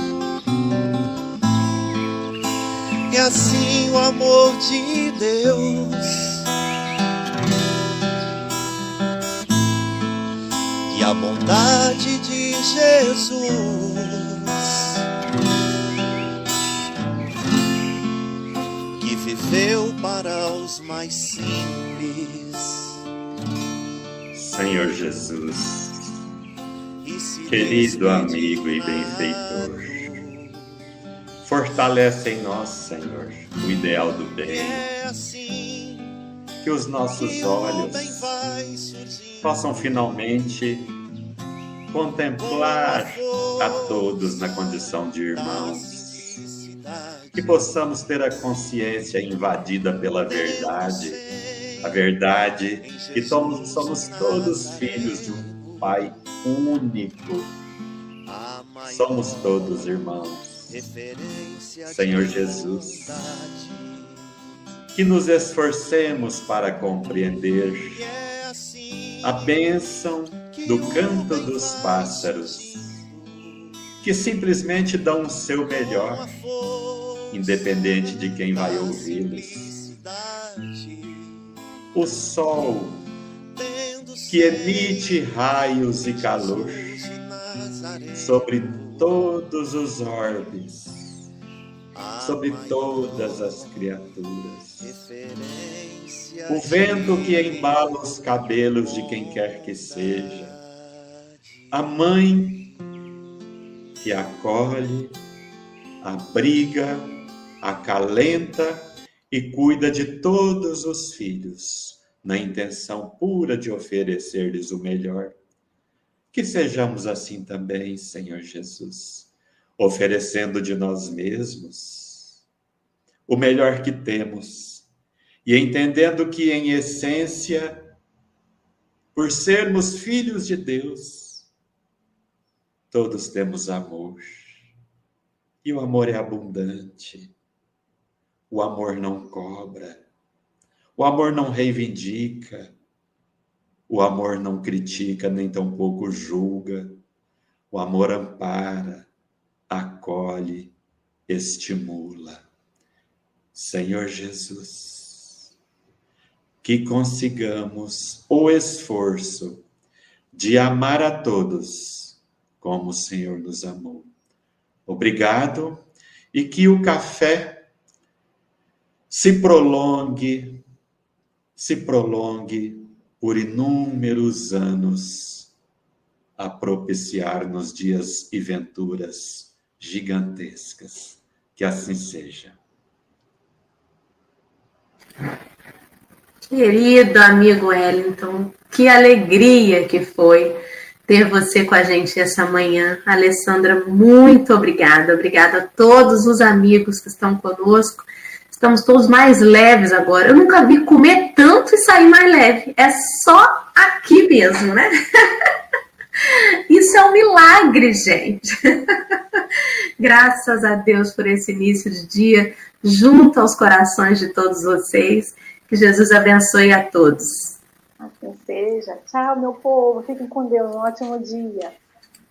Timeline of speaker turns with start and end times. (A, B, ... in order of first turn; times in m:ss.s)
0:03.1-0:06.5 A
0:10.9-0:14.9 A
0:19.0-0:23.0 A
0:24.3-0:26.2 B
0:27.0-0:30.7 A
0:27.5-0:30.1 B
0:31.4-0:34.8 B
0:34.4-0:36.1 A
0:36.6-0:38.3 B
0:37.2-0:40.0 A
0:39.4-0:40.9 B
0:41.9-0:46.4 B
0:42.4-0:47.7 A
0:47.4-0:51.2 B
0:50.3-0:52.1 A
0:51.8-0:57.5 B
0:52.8-0:56.1 A
0:58.3-1:04.2 A
0:58.8-1:00.7 B
1:01.9-1:03.1 B
1:04.9-1:08.0 B
1:07.9-1:09.5 A
1:09.2-1:13.0 B
1:10.4-1:13.8 A
1:14.0-1:16.3 B
1:15.7-1:21.4 A
1:17.3-1:19.8 B
1:21.9-1:23.0 B
1:23.5-1:25.2 A
1:24.3-1:27.0 B
1:26.0-1:29.2 A
1:28.1-1:31.2 B
1:32.0-1:33.8 A
1:32.2-1:34.9 B
1:34.8-1:41.8 A
1:36.5-1:40.5 B
1:41.7-1:42.7 B
1:44.0-1:45.2 B
1:46.0-1:55.4 B
1:56.3-2:02.4 B
2:03.3-2:04.9 B
2:05.4-2:07.9 B
2:09.2-2:11.5 B
2:12.9-2:14.7 B
2:15.6-2:17.3 B
2:18.5-2:20.0 B
2:21.0-2:22.7 B
2:23.9-2:27.0 B
2:27.7-2:29.1 B
2:29.7-2:30.8 B
2:31.3-2:32.4 B
2:33.6-2:35.5 B
2:36.6-2:39.6 B
2:40.3-2:44.1 B
2:44.9-2:47.6 B
2:49.1-2:50.6 B
2:51.6-2:55.5 B
2:56.4-3:02.6 B
3:06.5-3:25.3 C
3:26.2-3:29.4 C
3:30.0-3:37.6 C
3:38.0-3:41.8 D